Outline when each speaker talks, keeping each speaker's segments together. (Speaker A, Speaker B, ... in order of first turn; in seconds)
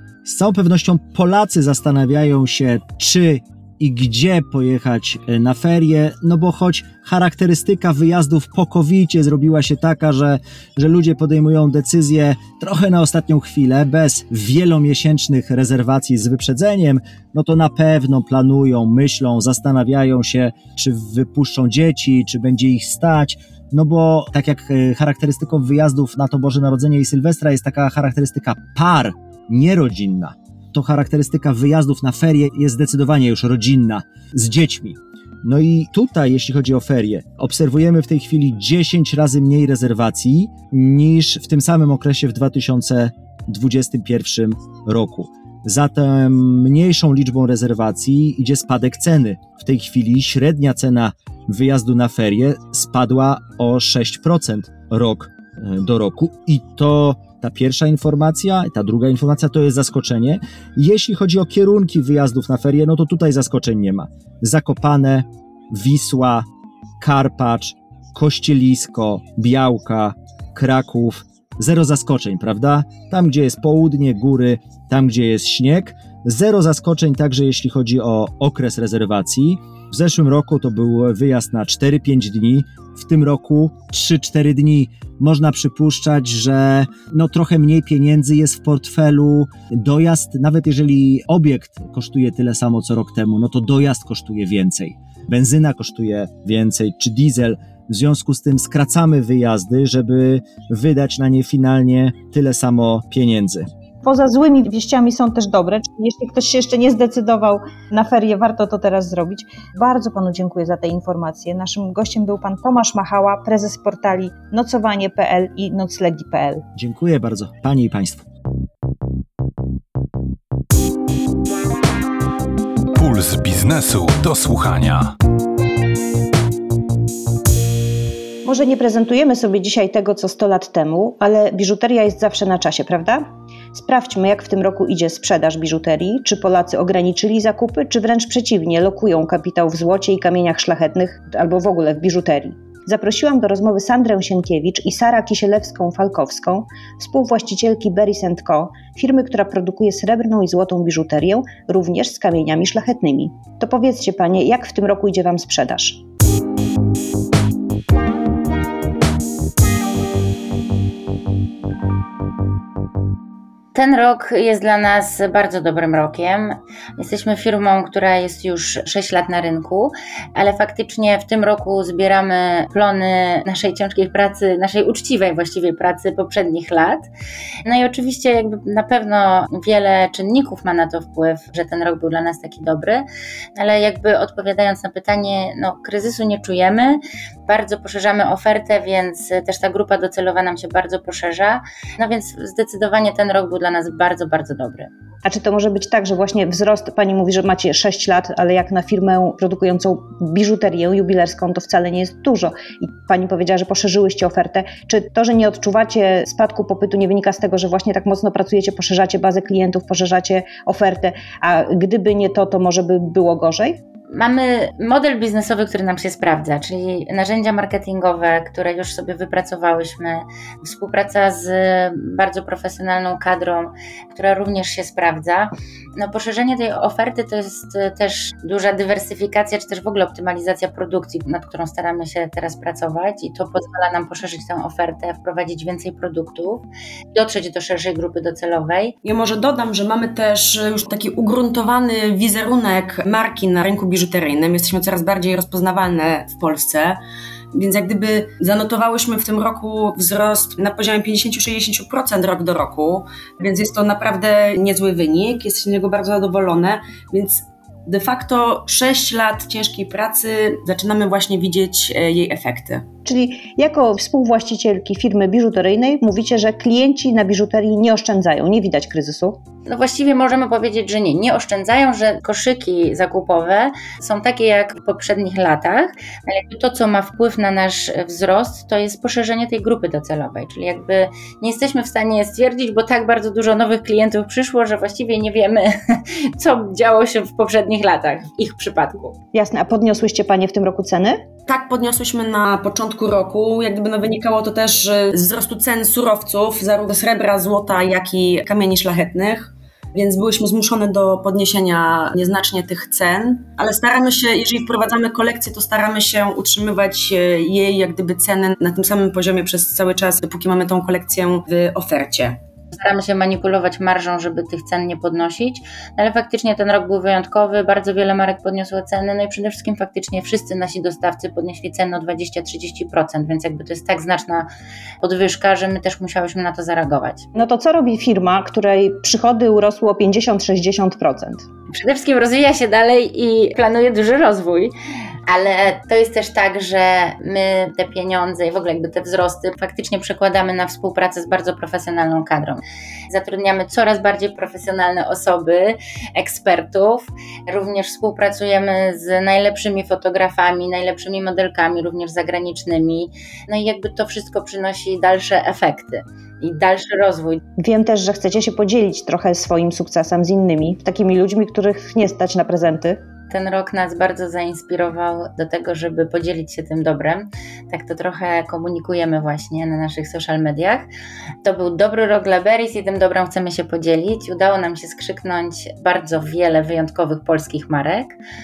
Speaker A: 0.2-66.5, 67.0-103.7, 116.8-118.2
Speaker B: 104.0-116.6, 128.4-156.0, 195.2-213.8, 263.0-269.4, 289.3-291.2, 327.3-331.4, 357.6-363.0
Speaker C: 122.9-125.1
Speaker D: 163.7-177.1, 177.6-183.0, 183.6-194.9, 214.1-238.9, 269.6-289.2, 312.7-324.5, 325.0-327.2, 331.7-334.7, 335.3-357.4, 363.3-370.9, 371.4-378.1
Speaker E: 239.0-247.0, 247.5-262.9, 291.5-312.4